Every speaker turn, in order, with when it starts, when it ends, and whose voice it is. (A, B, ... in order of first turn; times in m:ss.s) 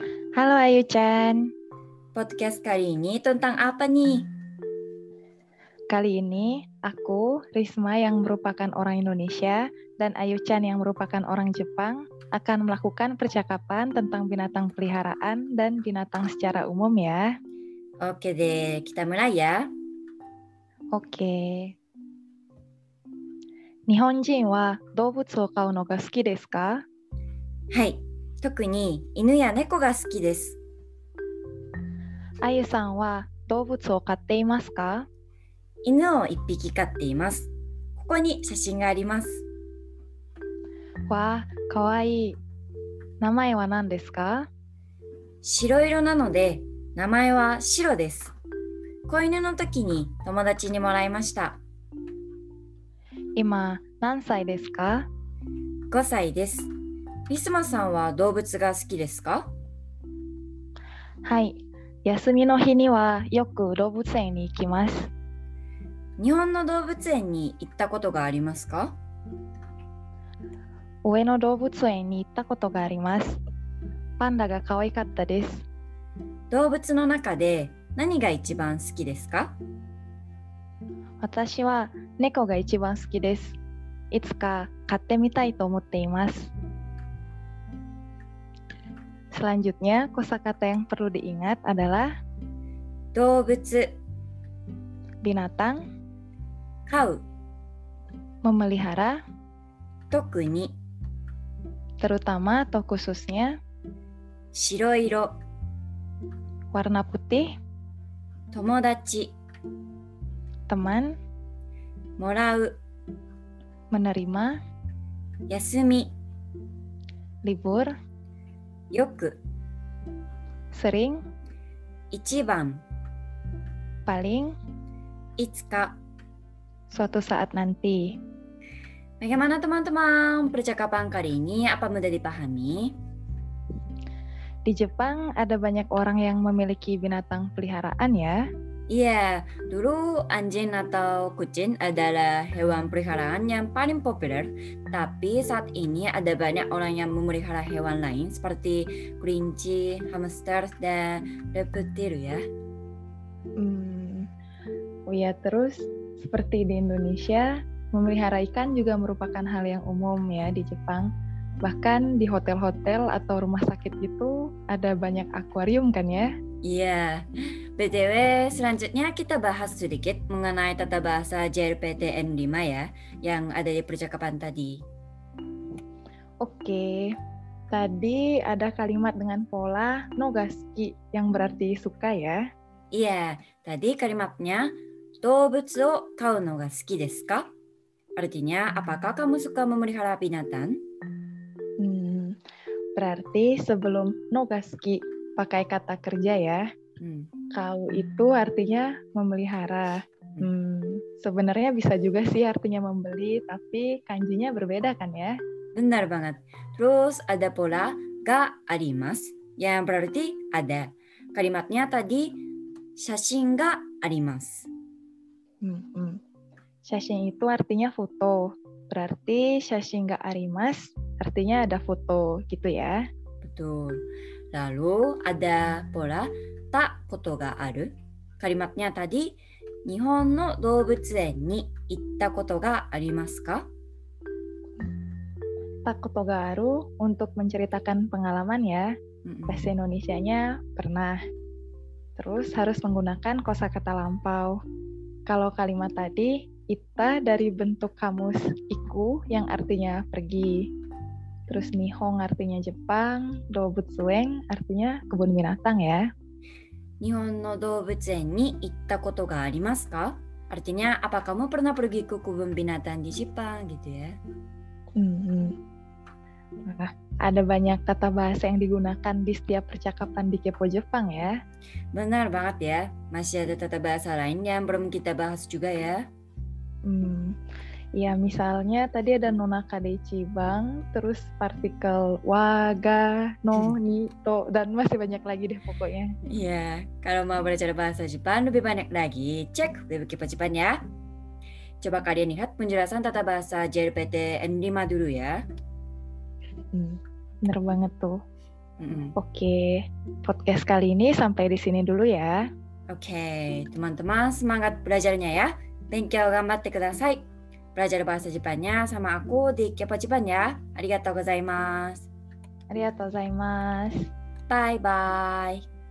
0:00.4-0:01.5 A
0:02.1-0:04.3 B
0:05.9-0:17.2 A
0:18.0-0:19.7 B
0:20.9-0:21.8 A
0:23.9-0:26.8 A
0:27.7-0:30.6 B
0:32.4-0:35.1 A
0:35.8-0:39.4 B
0:41.1-0:42.4 A
0:43.2-0:44.5 A
0:45.4-0:48.3 B
0:49.1-0:51.6 B
0:53.4-0:55.1 A
0:55.9-0:56.7 B
0:57.3-0:59.5 B
1:01.2-1:05.1 A
1:06.2-1:09.0 B
1:11.0-1:13.4 A
1:14.2-1:15.6 A
1:16.5-1:19.5 B
1:21.2-1:23.6 A
1:24.1-1:26.5 A
1:29.3-1:32.1 A
1:33.1-1:33.9 B
1:35.2-1:35.8 A
1:36.9-1:37.2 B
1:38.4-1:39.2 A
1:40.1-1:40.7 B
1:42.0-1:43.6 A
1:44.5-1:45.3 B
1:46.7-1:47.5 A
1:48.5-1:49.3 B
1:50.7-1:51.2 A
1:52.2-1:52.8 B
1:53.9-1:54.6 A
1:55.5-1:56.1 B
1:57.4-1:57.9 A
1:58.9-1:59.4 B
2:00.7-2:01.2 A
2:02.1-2:02.8 B
2:04.1-2:04.5 A
2:05.4-2:06.0 B
2:06.9-2:08.0 A
2:09.2-2:12.9 B
2:14.6-2:18.4 A
2:18.9-2:32.4 B
2:33.6-2:34.3 A
2:35.1-2:41.1 A
2:41.6-2:46.3 A
2:46.6-2:47.2 B
2:47.8-2:54.8 B
2:56.4-2:57.1 A
2:57.7-3:02.4 A
3:02.9-3:07.5 B
3:08.2-3:10.8 B
3:11.8-3:12.4 A
3:13.0-3:16.6 A
3:17.0-3:17.3 B
3:17.5-3:25.3 A
3:25.8-3:34.7 B
3:35.6-3:36.2 A
3:36.8-3:43.0 A
3:43.4-3:53.6 B
3:55.8-3:58.9 A
3:59.2-3:59.7 B
3:59.5-4:01.2 A
4:02.2-4:04.6 A
4:05.3-4:10.7 A
4:11.5-4:16.0 A
4:17.0-4:24.1 B
4:25.0-4:25.6 A
4:26.6-4:31.3 A
4:31.9-4:36.0 B
4:36.8-4:37.4 A
4:38.0-4:46.2 A
4:46.3-4:50.8 B
4:51.8-4:55.4 B
4:56.7-4:58.2 A
4:58.8-4:59.1 B
4:59.2-5:02.4 A
5:02.9-5:07.2 B
5:07.8-5:12.1 B
5:12.7-5:14.1 A
5:14.5-5:15.6 B